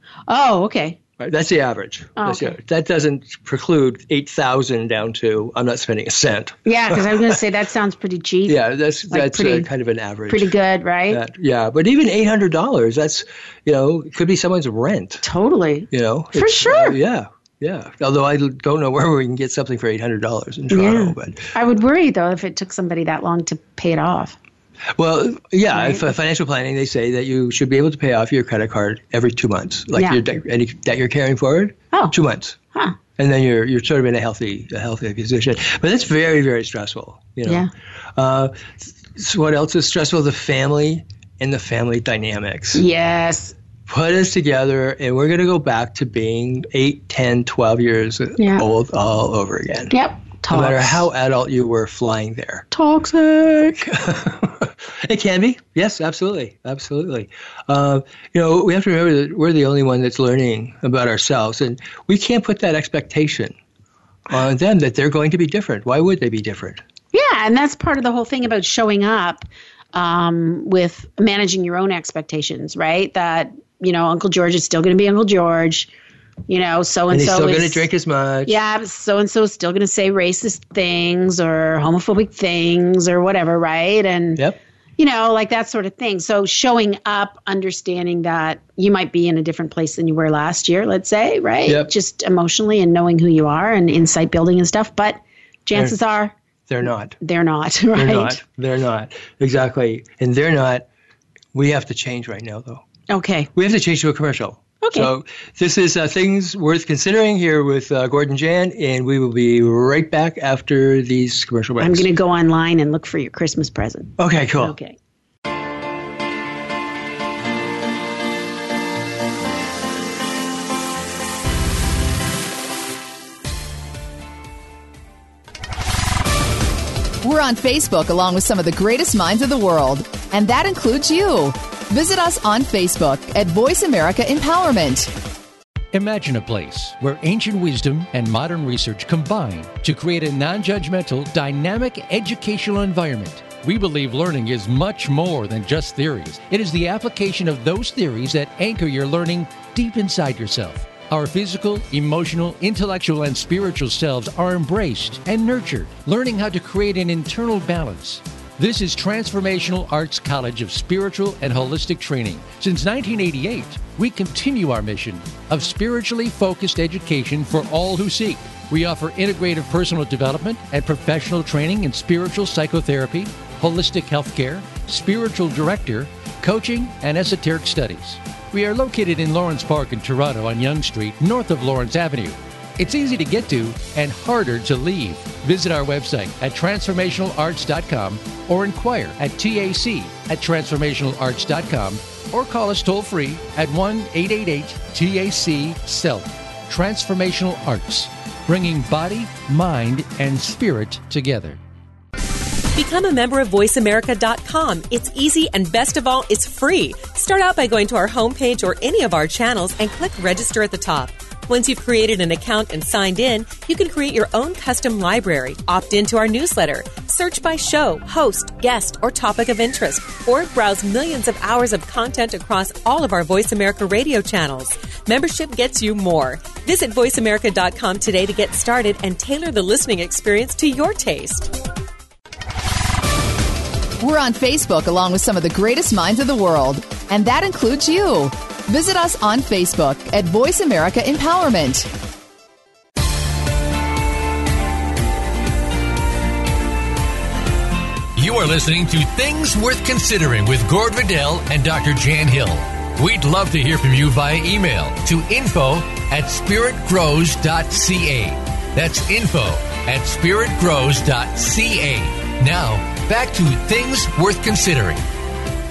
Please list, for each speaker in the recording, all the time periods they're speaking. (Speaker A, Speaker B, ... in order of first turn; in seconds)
Speaker A: 0.3-1.0, 2.2-2.6, 6.6-9.7, 10.3-11.2, 15.2-17.0, 20.7-24.4, 25.7-26.1, 42.7-43.5, 48.4-48.6, 49.9-51.0, 52.7-53.9, 67.1-75.9, 76.5-77.9, 78.5-84.4, 85.0-96.3, 97.2-98.4, 103.1-103.5, 104.8-105.1, 111.8-115.0
Speaker B: 1.2-7.4, 8.5-10.5, 11.1-15.2, 15.9-21.5, 24.9-32.6, 33.2-42.8, 43.9-49.9, 50.5-52.7, 53.8-63.5, 64.3-66.8, 77.1-78.6, 91.7-91.9, 96.7-97.2, 97.9-100.8, 101.5-102.8, 103.5-112.1, 114.2-114.7
Speaker C: 127.2-135.1, 234.0-241.9
Speaker D: 135.9-201.6, 248.1-265.0
Speaker E: 202.7-231.5